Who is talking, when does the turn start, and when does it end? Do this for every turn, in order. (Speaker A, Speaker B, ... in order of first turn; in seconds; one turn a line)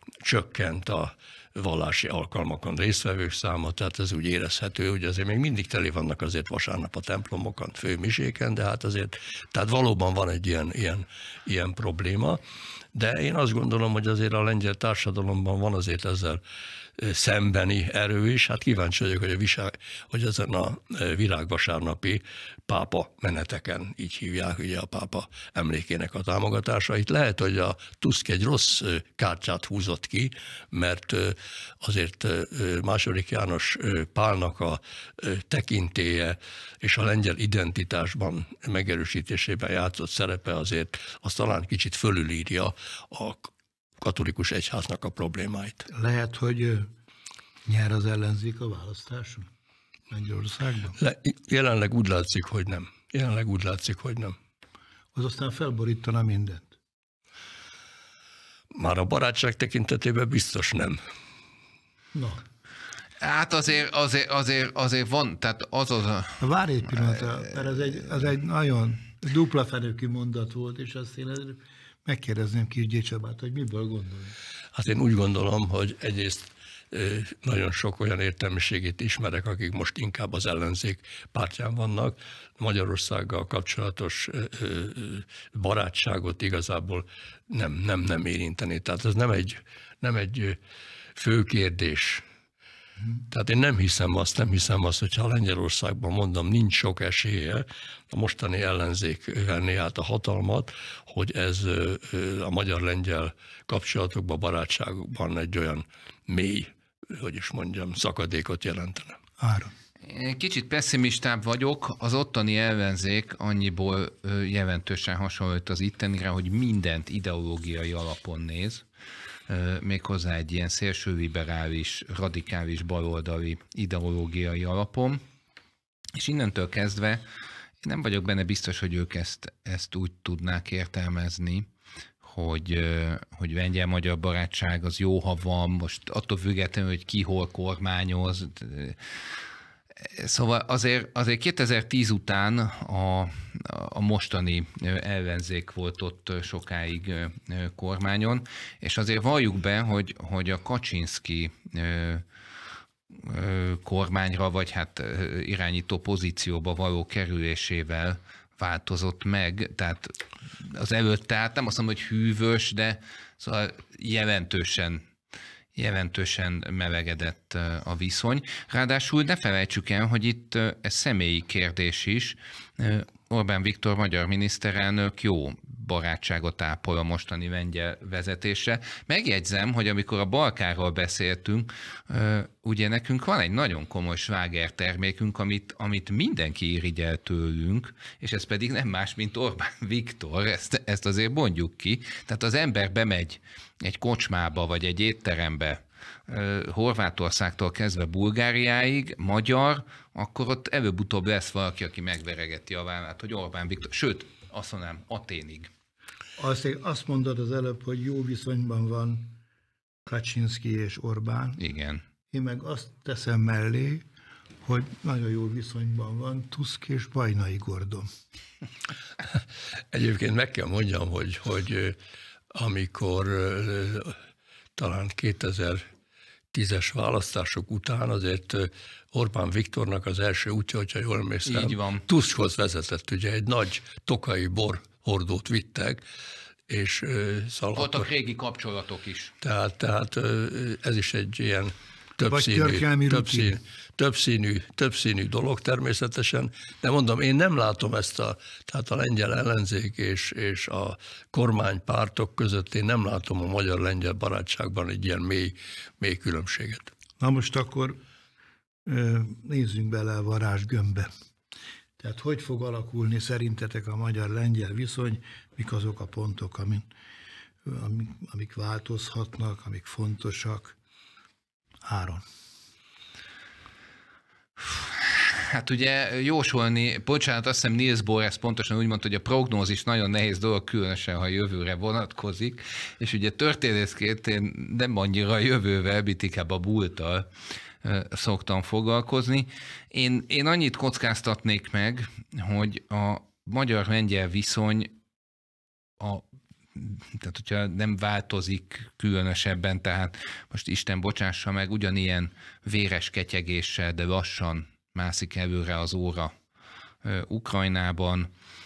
Speaker A: 0.2-12.4
Speaker A: 12.9-16.4
Speaker A: 17.0-45.9
Speaker B: 45.9-46.9
Speaker B: 47.6-49.5
Speaker B: 50.1-51.0
Speaker A: 51.0-54.4
Speaker B: 55.1-56.7
Speaker A: 58.7-61.0
Speaker B: 62.1-62.4
Speaker C: 63.2-66.4
Speaker B: 66.4-74.3
Speaker A: 74.7-90.6
Speaker A: 91.2-92.2
Speaker A: 93.3-109.2
Speaker B: 109.4-109.7
Speaker C: 110.0-118.8
Speaker C: 119.5-125.2
Speaker C: 126.2-127.2
Speaker C: 127.8-131.7
Speaker C: 132.2-139.2
Speaker C: 140.0-152.2
Speaker C: 153.1-165.0
Speaker C: 165.7-205.7
Speaker B: 206.4-209.4
Speaker B: 210.1-211.6
Speaker C: 211.6-212.0
Speaker B: 212.3-214.0
Speaker B: 214.6-218.1
Speaker A: 219.9-222.0
Speaker A: 222.5-224.2
Speaker A: 224.8-225.8
Speaker A: 226.5-236.0
Speaker C: 231.4-232.0
Speaker A: 236.7-238.1
Speaker C: 237.7-239.3
Speaker A: 239.4-256.9
Speaker B: 242.2-243.6
Speaker B: 257.2-258.0
Speaker B: 258.9-261.1
Speaker B: 262.0-266.9
Speaker B: 267.6-270.8
Speaker B: 271.8-272.2
Speaker C: 274.6-287.3
Speaker C: 287.8-294.9
Speaker C: 296.0-306.3
Speaker C: 307.0-308.3